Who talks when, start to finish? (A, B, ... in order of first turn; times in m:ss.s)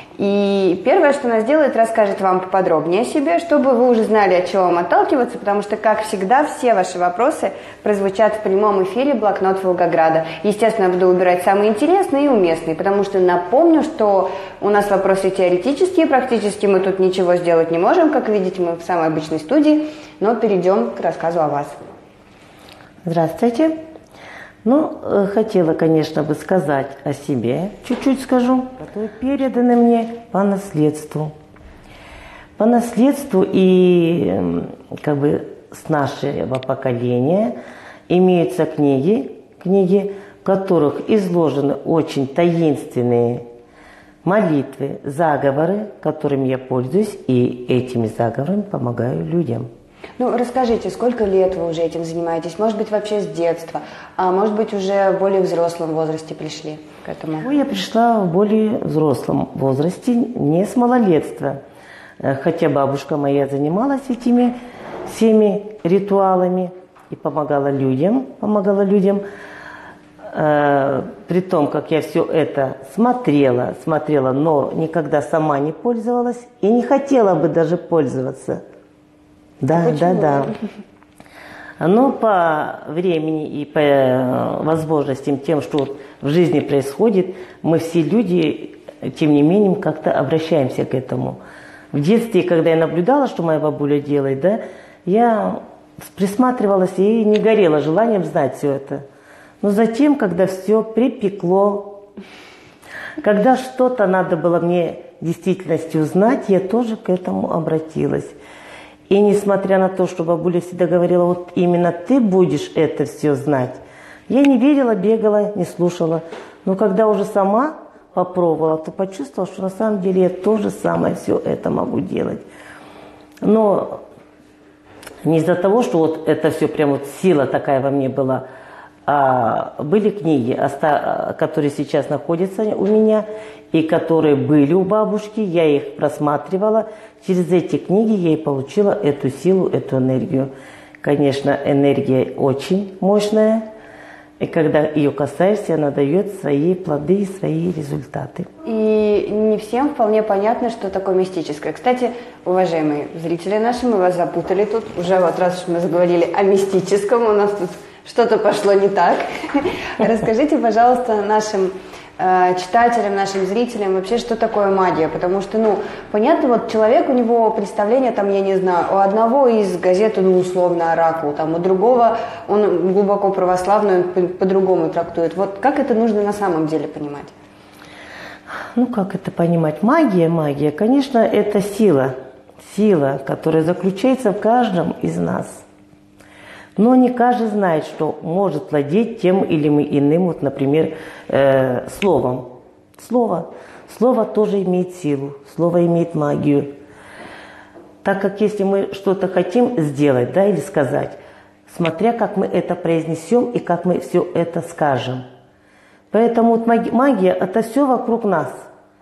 0:00.2-0:21.8 A
0:23.0-0:23.8 B
0:24.6-0:31.3 B
0:32.6-0:37.5 B
0:38.1-0:43.4 B
0:44.2-0:49.7 B
0:50.2-0:57.5 A
0:57.4-1:01.6 B
1:02.2-1:04.5 B
1:05.0-1:09.2 B
1:10.3-1:18.6 B
1:19.6-1:20.5 B
1:19.8-1:20.5 A
1:21.8-1:31.4 B
1:31.9-1:39.0 B
1:39.6-1:42.0 B
1:43.2-1:48.4 B
1:49.1-1:53.8 B
1:54.3-2:02.4 B
2:03.4-2:04.0 B
2:05.2-2:08.4 B
2:09.0-2:20.5 B
2:21.0-2:23.6 B
2:24.4-2:28.5 B
2:28.6-2:57.3 A
2:58.7-3:05.6 B
3:06.8-3:16.7 B
3:18.0-3:25.2 B
3:26.1-3:28.5 B